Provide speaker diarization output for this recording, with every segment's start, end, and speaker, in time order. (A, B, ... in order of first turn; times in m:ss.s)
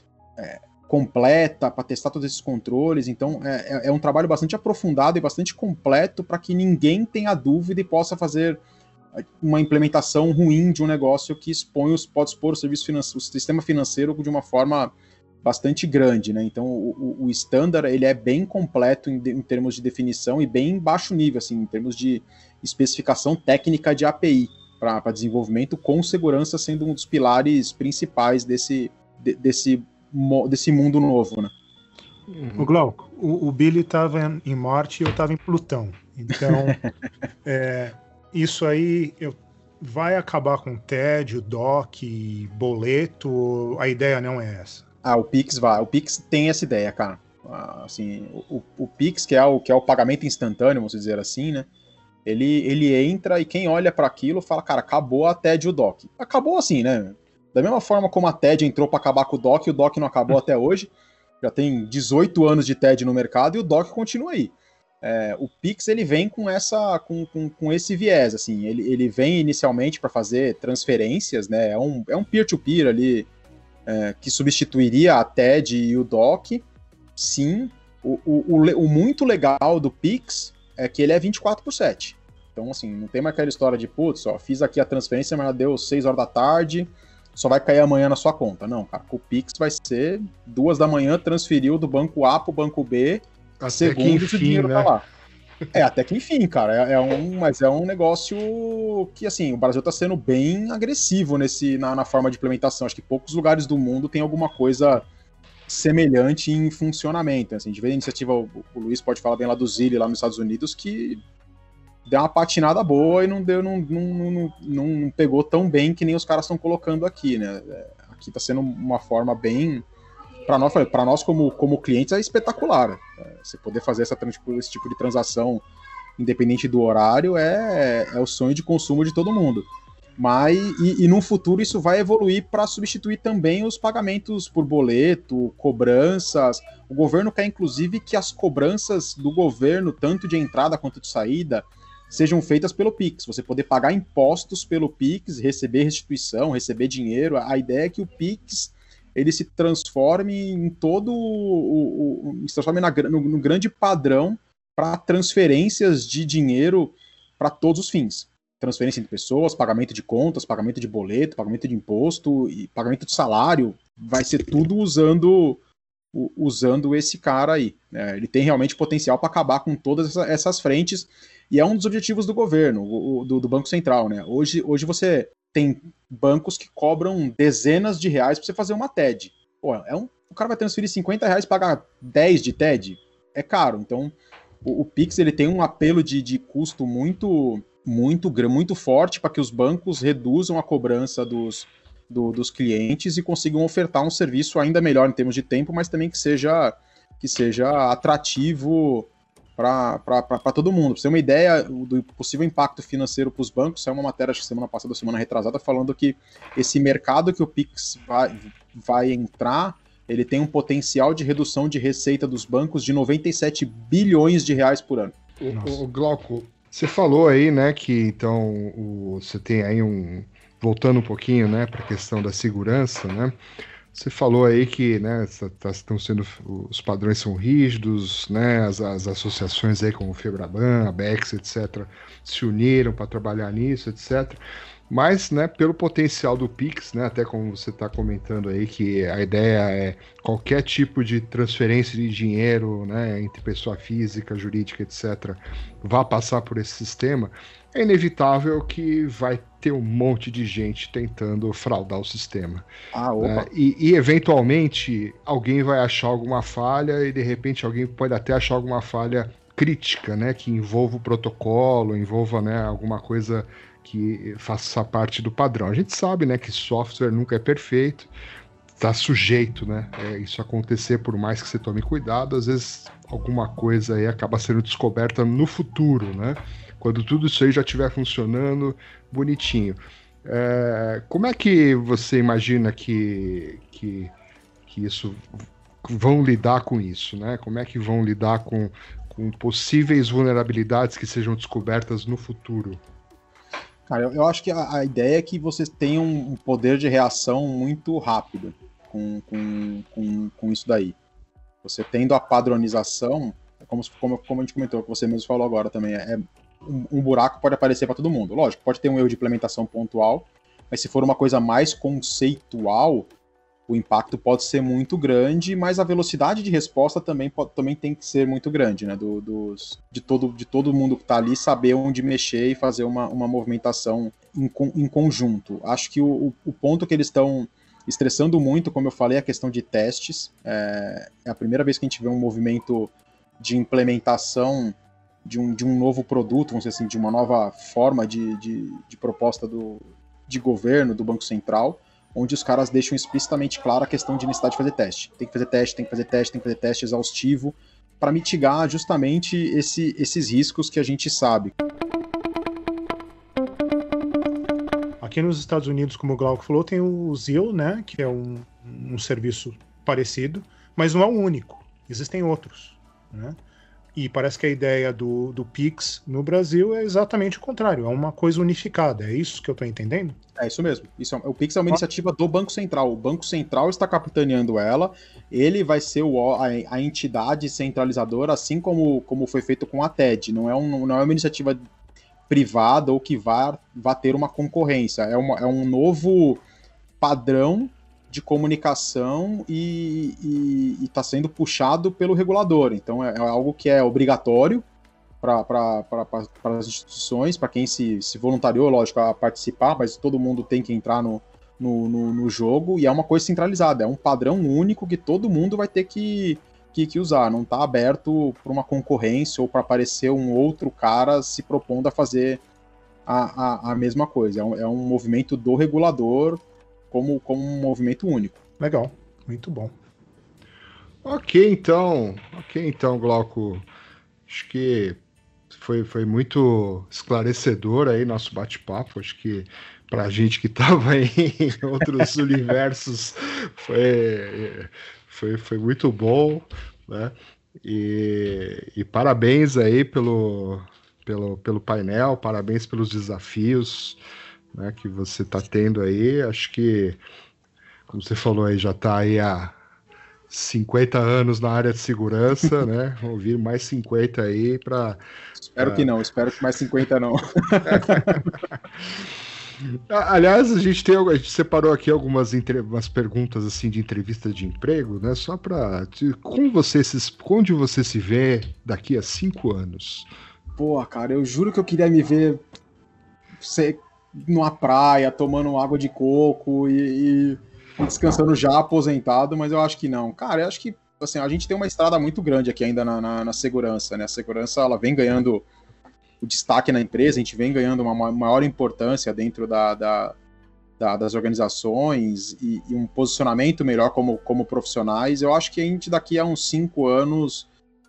0:00.4-0:08.6 A
0:09.2-0:31.5 A
0:32.3-0:32.7 B
0:32.6-0:36.8 C
0:37.4-0:44.8 C
0:45.0-0:51.7 A
0:52.2-1:13.3 A
1:13.9-1:16.6 A
1:17.2-1:35.0 A
1:33.6-1:34.9 B
1:35.7-1:45.1 A
1:45.7-1:51.2 A
1:52.0-1:59.8 A
2:00.5-2:05.6 A
2:06.2-2:45.6 A
2:46.1-3:35.1 A
3:35.4-3:43.4 B
3:35.5-3:35.8 C
3:43.9-4:12.7 B
4:12.9-4:13.5 A
4:13.2-4:28.1 B
4:28.8-4:44.1 B
4:44.7-4:52.8 B
4:53.9-5:01.0 A
5:01.6-5:13.1 A
5:13.7-5:51.6 A
5:55.0-6:03.4 C
6:03.9-6:10.2 C
6:10.4-6:21.6 A
6:22.3-6:26.4 A
6:27.0-6:34.6 A
6:35.2-6:52.4 A
6:53.1-6:58.4 A
6:58.6-6:59.7 C
7:01.0-7:03.6 B
7:04.3-7:05.0 B
7:05.5-7:24.0 B
7:24.5-7:27.0 B
7:27.9-7:29.6 B
7:30.3-7:35.0 B
7:35.4-7:38.3 A
7:35.6-7:35.9 B
7:37.6-7:38.2 B
7:39.7-7:50.1 B
7:50.6-7:52.4 A
7:53.4-8:05.4 A
8:06.2-8:10.1 A
8:10.8-8:17.5 A